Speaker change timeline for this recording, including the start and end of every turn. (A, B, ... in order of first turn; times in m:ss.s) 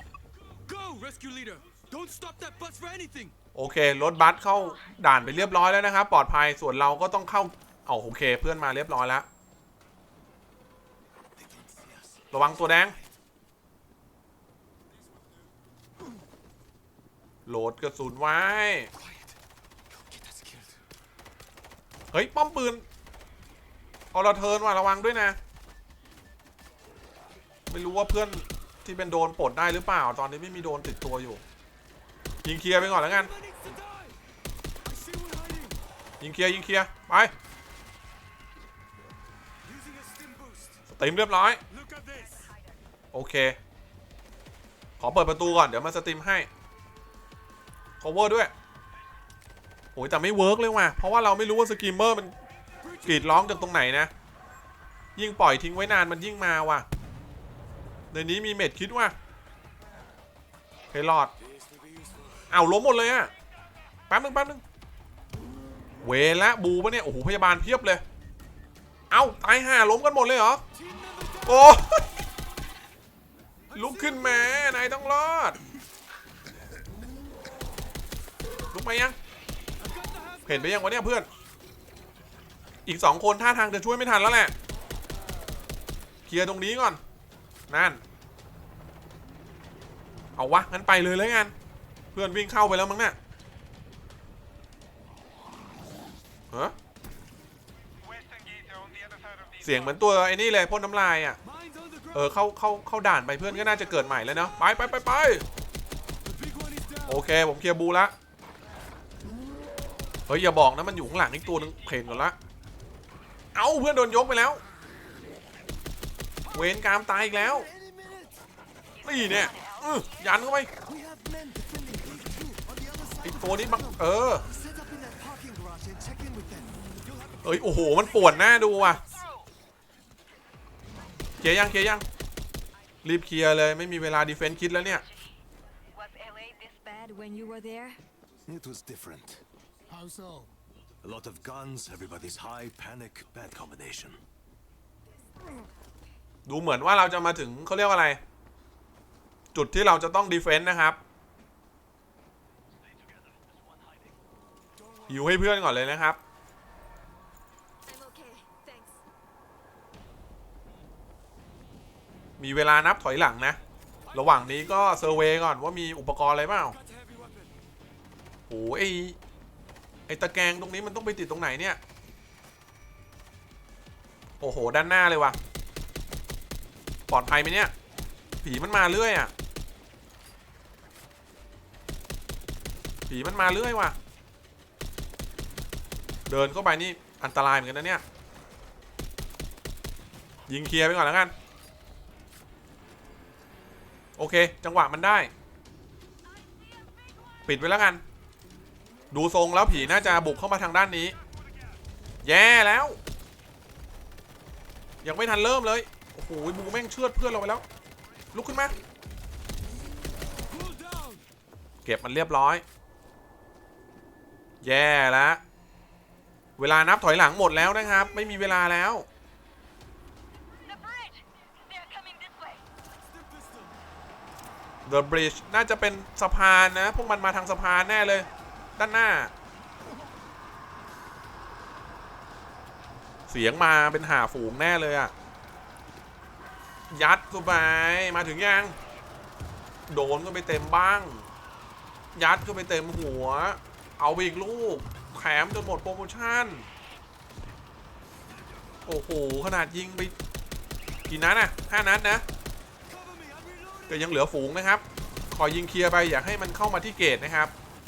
0:00.6-0:03.3 A
0:03.5-0:09.3 B
0:12.3-0:13.0 B
0:17.5-0:18.9 B
0:20.1-0:20.7 A
0:22.1-0:22.8 B
0:24.1-0:25.4 B
0:27.7-0:31.4 B
0:32.4-0:33.3 B
0:32.9-0:34.2 A
0:34.9-0:35.8 A
0:36.2-0:37.3 B
0:39.7-0:40.7 A
0:40.9-0:41.6 B
0:41.7-0:42.5 A
0:43.1-0:43.6 B
0:45.0-0:46.5 B
0:48.0-0:48.5 B
0:50.0-0:52.3 B
0:53.0-0:54.1 B
0:55.2-0:56.9 B
0:58.1-0:59.2 B
1:00.9-1:01.3 B
1:01.8-1:02.2 A
1:02.5-1:03.3 B
1:04.1-1:04.6 B
1:06.0-1:08.0 B
1:09.1-1:10.6 B
1:10.8-1:11.4 A
1:11.4-1:12.1 B
1:13.7-1:15.6 B
1:13.8-1:14.3 A
1:18.7-1:19.2 B
1:19.8-1:20.5 A
1:20.4-1:21.3 B
1:22.9-1:24.5 B
1:26.2-1:27.0 B
1:27.7-1:28.0 B
1:30.4-1:31.5 B
1:32.1-1:33.2 B
1:38.1-1:39.5 A
1:39.6-1:41.4 B
1:41.5-1:42.1 A
1:42.1-1:45.4 B
1:46.3-1:47.1 A
1:47.1-1:48.1 B
1:50.3-1:52.4 B
1:53.6-1:54.6 B
1:56.5-1:57.7 B
1:57.7-1:58.3 C
1:59.0-2:00.7 B
1:59.2-2:00.1 D
2:00.9-2:03.2 C
2:03.2-2:04.5 B
2:04.6-2:07.0 C
2:07.4-2:09.0 B
2:11.4-2:12.0 B
2:13.0-2:15.0 B
2:16.0-2:17.1 D
2:16.9-2:18.0 E
2:18.5-2:19.4 C
2:21.0-2:24.2 C
2:26.5-2:28.2 B
2:29.5-2:31.0 B
2:35.1-2:36.2 B
2:37.9-2:39.0 E
2:42.4-2:43.6 B
2:44.1-2:46.8 B
2:46.8-2:47.5 A
2:48.5-2:49.2 B
2:50.1-2:51.8 B
2:54.4-2:55.4 B
2:57.1-2:57.7 B
2:58.4-2:59.3 B
3:03.1-3:04.0 B
3:06.3-3:08.0 B
3:10.5-3:11.3 B
3:14.2-3:15.3 B
3:17.5-3:18.0 B
3:19.1-3:21.2 B
3:22.2-3:23.0 B
3:25.0-3:27.6 B
3:28.3-3:28.8 B
3:30.5-3:31.2 A
3:31.8-3:32.6 B
3:34.6-3:35.4 B
3:36.6-3:39.1 B
3:40.6-3:42.6 D
3:44.9-3:49.3 B
3:53.3-3:55.1 B
3:56.9-3:58.8 B
3:59.9-4:01.2 B
4:02.2-4:06.7 B
4:08.9-4:10.1 B
4:11.1-4:12.2 B
4:12.9-4:13.8 A
4:13.9-4:17.5 B